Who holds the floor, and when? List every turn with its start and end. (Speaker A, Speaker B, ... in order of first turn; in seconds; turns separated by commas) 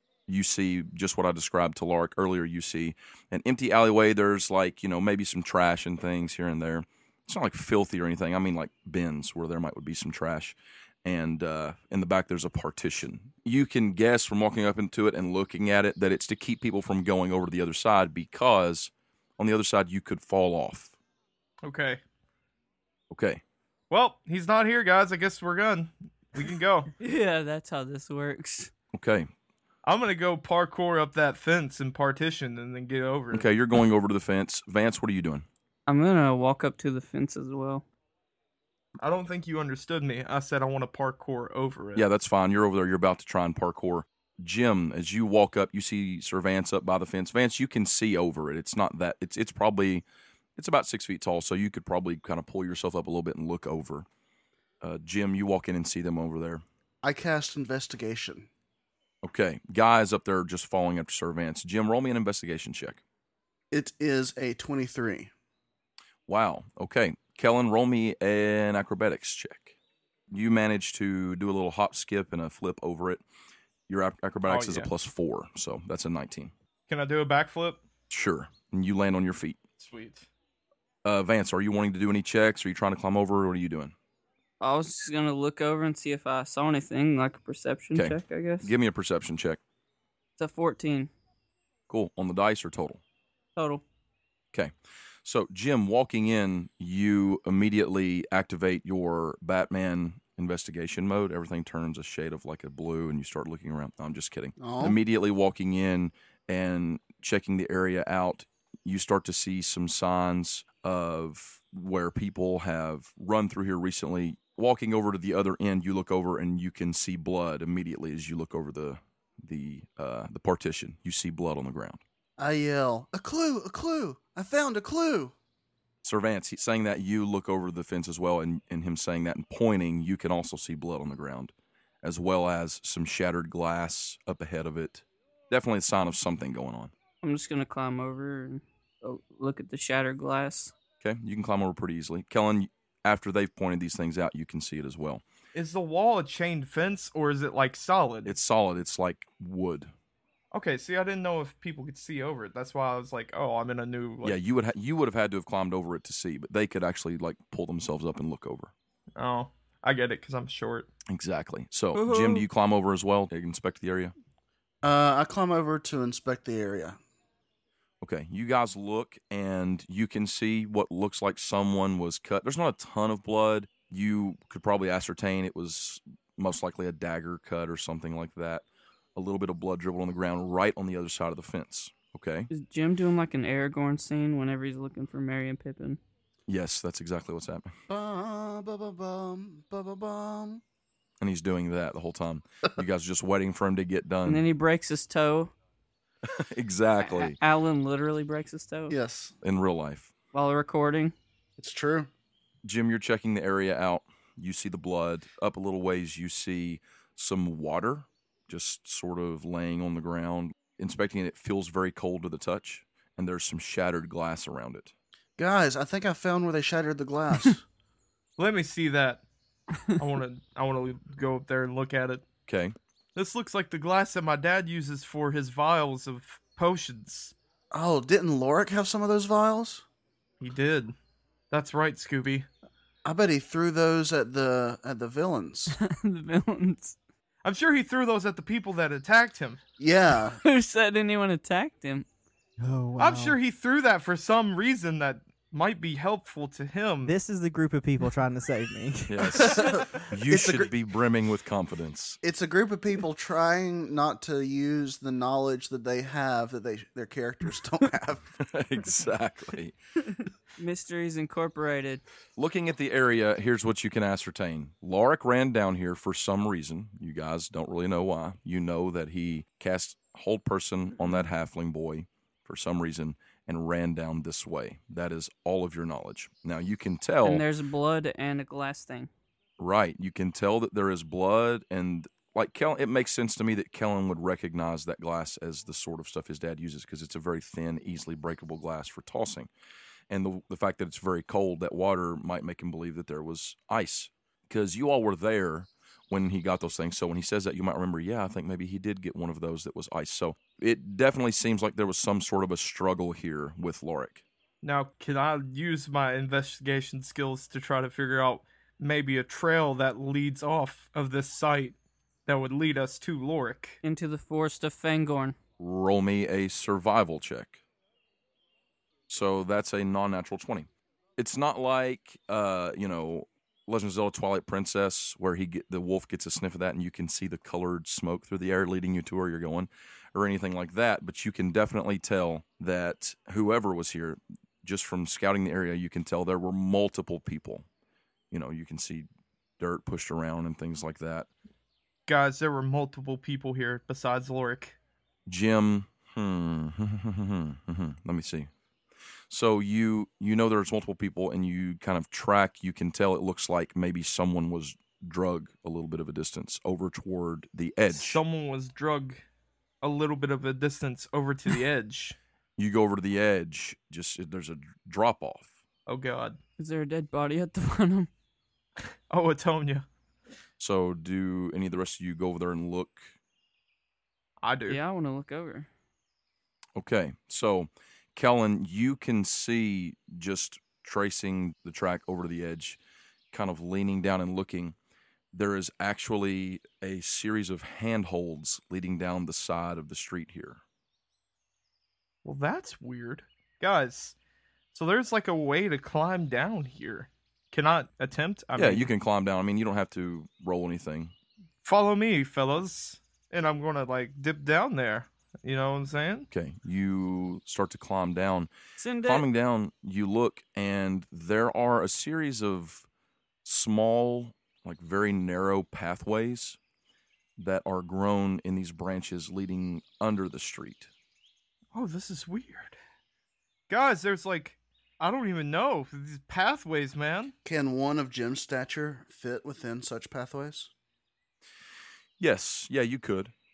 Speaker A: 0.3-20.9, Speaker B: 21.6-22.0, Speaker A: 23.1-23.4, Speaker B: 23.9-26.9, Speaker C: 27.0-28.7, Speaker A: 28.9-29.3, Speaker B: 29.8-33.5, Speaker A: 33.3-35.4, Speaker C: 35.9-37.8, Speaker B: 39.0-42.0, Speaker A: 41.9-50.0, Speaker A: 50.5-54.0, Speaker A: 54.8-56.6, Speaker D: 57.0-58.5, Speaker A: 59.2-63.0, Speaker D: 63.7-65.3, Speaker A: 66.3-69.8, Speaker A: 70.3-73.2, Speaker A: 73.9-76.5, Speaker B: 74.5-74.9, Speaker B: 76.9-77.8, Speaker A: 78.1-79.6, Speaker B: 79.8-80.3, Speaker A: 81.0-83.9, Speaker C: 84.6-88.7, Speaker A: 87.9-89.6, Speaker C: 90.4-91.1, Speaker A: 91.9-93.0, Speaker C: 93.5-93.8, Speaker A: 95.2-122.0, Speaker D: 104.6-105.0, Speaker D: 122.4-125.3, Speaker A: 126.0-136.9, Speaker C: 137.2-140.7, Speaker A: 141.0-145.2, Speaker B: 145.5-148.3, Speaker A: 148.2-149.9, Speaker B: 150.5-154.4, Speaker A: 154.2-158.7, Speaker B: 159.2-160.9, Speaker A: 161.1-164.1, Speaker C: 161.9-162.4, Speaker D: 164.8-167.0, Speaker A: 168.0-178.6, Speaker A: 179.2-182.5, Speaker C: 182.5-186.0, Speaker A: 186.5-187.7, Speaker D: 187.9-190.6, Speaker A: 191.2-194.4, Speaker C: 194.2-195.5, Speaker A: 196.2-197.4, Speaker C: 197.0-199.0, Speaker D: 198.9-199.3, Speaker A: 199.4-200.1, Speaker C: 200.3-201.1, Speaker D: 201.6-202.1, Speaker A: 202.6-214.9, Speaker D: 215.4-217.6, Speaker B: 218.4-219.2, Speaker B: 220.0-222.2, Speaker A: 222.5-222.8, Speaker B: 223.1-227.3, Speaker D: 227.7-229.8, Speaker B: 230.4-230.9, Speaker B: 231.5-232.5, Speaker D: 233.0-235.8, Speaker C: 235.7-236.9, Speaker B: 237.4-239.6, Speaker D: 239.8-240.4, Speaker C: 240.4-242.1, Speaker E: 242.6-243.4, Speaker B: 243.0-247.1, Speaker E: 247.1-249.7, Speaker A: 249.1-252.2, Speaker D: 249.3-250.7, Speaker D: 252.2-258.2, Speaker A: 258.4-259.7, Speaker C: 260.6-262.0, Speaker A: 262.4-277.4, Speaker C: 277.2-279.1, Speaker A: 279.6-289.5, Speaker A: 290.1-304.2, Speaker B: 304.6-313.8, Speaker C: 313.8-315.4, Speaker A: 315.6-317.6, Speaker A: 319.1-337.6, Speaker A: 338.3-339.1, Speaker A: 339.6-341.3, Speaker B: 342.1-344.8, Speaker A: 345.3-348.5, Speaker A: 349.3-358.2, Speaker B: 357.9-359.2, Speaker B: 359.8-362.2, Speaker A: 362.6-365.5, Speaker B: 365.9-366.4, Speaker C: 366.6-368.1, Speaker B: 369.1-369.9, Speaker A: 370.6-373.1, Speaker B: 374.4-374.8, Speaker C: 374.7-375.7, Speaker A: 376.8-382.8, Speaker A: 383.3-384.8, Speaker A: 385.3-390.6, Speaker B: 392.2-394.1, Speaker B: 394.7-398.9, Speaker A: 398.6-401.1, Speaker B: 401.6-406.3, Speaker A: 406.3-408.5, Speaker C: 408.8-409.2, Speaker A: 409.0-412.9, Speaker A: 413.4-416.6, Speaker A: 417.4-420.9, Speaker B: 421.7-422.8, Speaker B: 423.7-427.3, Speaker D: 427.4-430.7, Speaker A: 432.2-433.3